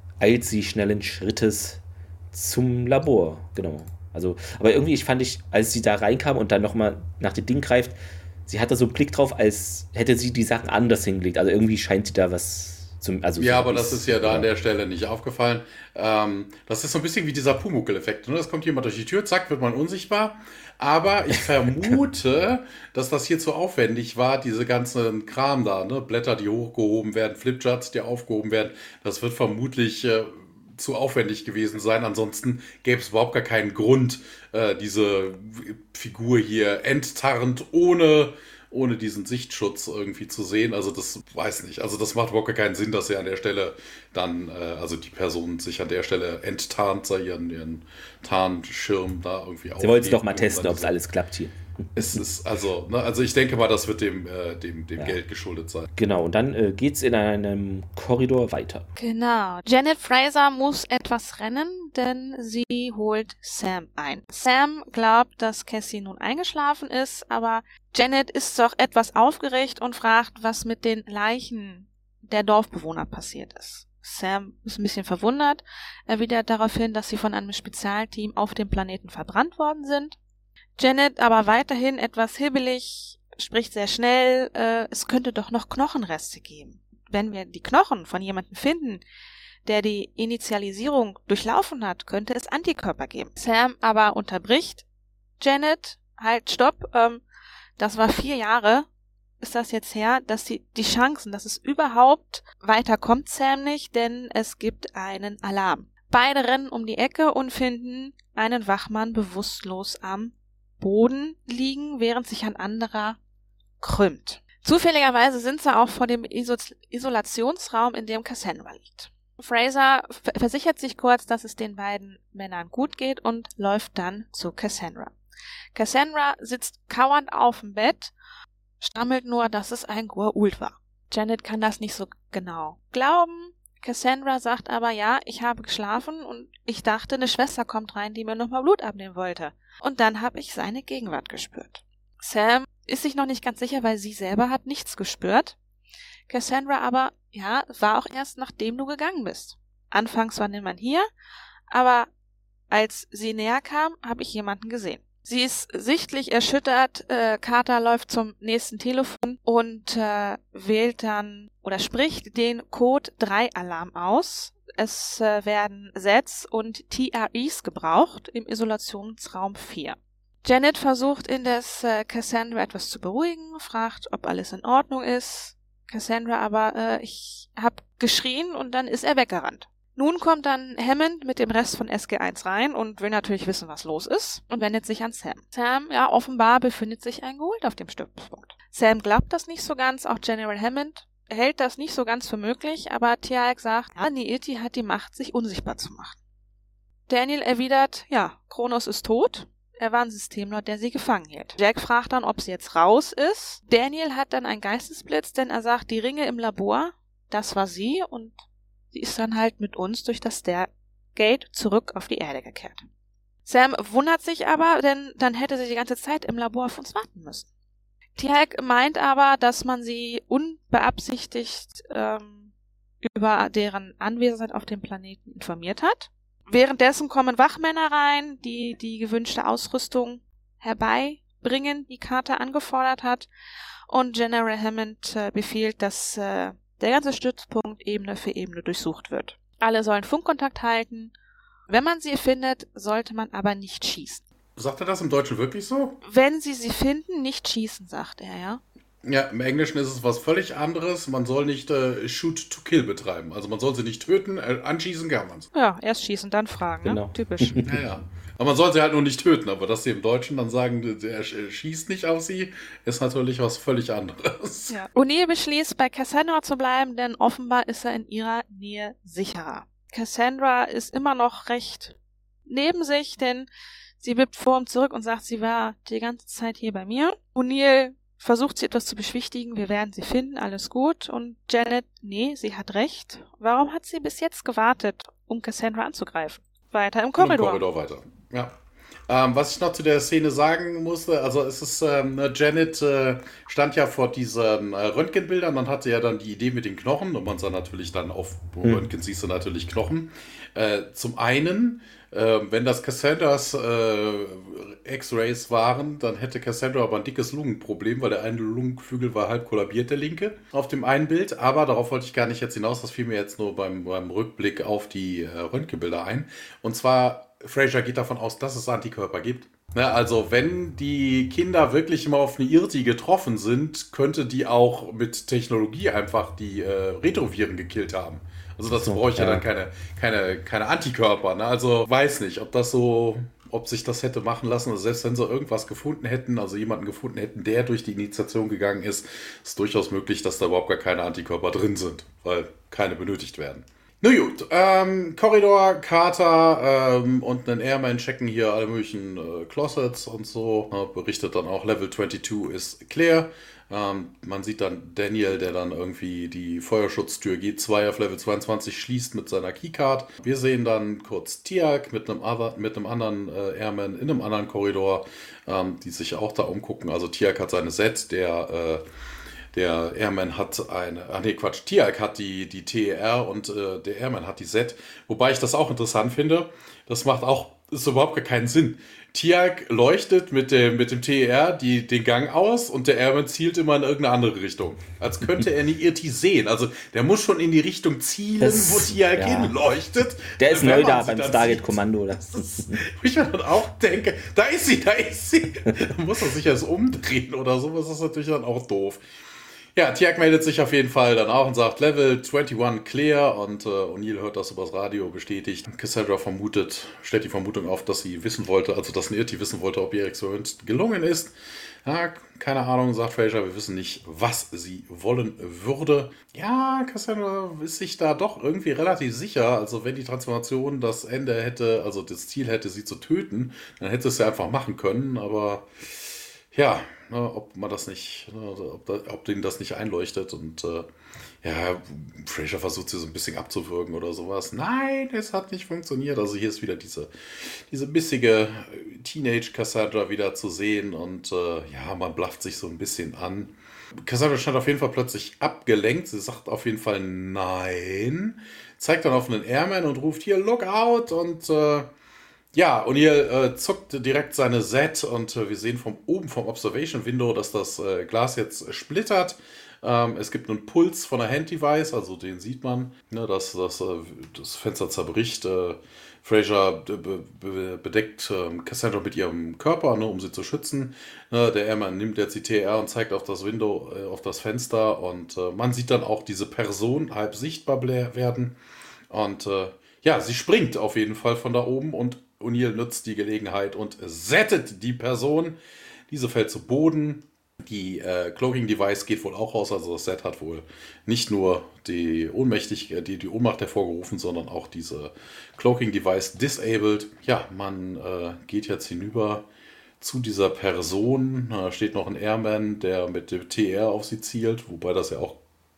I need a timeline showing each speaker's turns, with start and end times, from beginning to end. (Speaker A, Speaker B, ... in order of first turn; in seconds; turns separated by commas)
Speaker A: 0.2-14.5, Speaker B: 13.4-51.0, Speaker A: 49.8-51.5, Speaker B: 52.0-55.9, Speaker A: 55.9-58.9, Speaker C: 59.0-80.2, Speaker C: 80.8-89.0, Speaker C: 89.7-94.8, Speaker C: 95.4-97.2, Speaker C: 97.8-98.9, Speaker C: 99.4-113.2, Speaker C: 113.8-125.1, Speaker C: 125.8-128.1, Speaker C: 128.8-145.6, Speaker C: 146.3-151.1, Speaker C: 151.7-152.1, Speaker C: 152.7-196.2, Speaker C: 197.1-208.3, Speaker C: 208.9-212.9, Speaker C: 213.4-217.5, Speaker C: 218.2-222.5, Speaker C: 223.0-233.3, Speaker C: 233.9-241.1, Speaker C: 241.7-244.2, Speaker B: 244.6-246.0, Speaker C: 246.0-248.6, Speaker B: 249.1-255.5, Speaker C: 255.5-257.6, Speaker A: 256.8-257.9, Speaker B: 257.6-264.8, Speaker C: 264.7-273.5, Speaker C: 274.0-287.6, Speaker B: 287.2-288.6, Speaker B: 289.1-368.8, Speaker A: 298.6-298.9, Speaker A: 328.7-329.5, Speaker B: 369.5-399.0, Speaker A: 388.4-389.6, Speaker A: 390.4-392.8, Speaker B: 399.8-411.3, Speaker B: 411.9-425.7, Speaker B: 426.5-430.9, Speaker B: 431.4-443.5, Speaker B: 444.1-451.9, Speaker B: 452.5-478.6, Speaker B: 479.1-485.6, Speaker B: 486.1-499.5, Speaker B: 500.0-505.4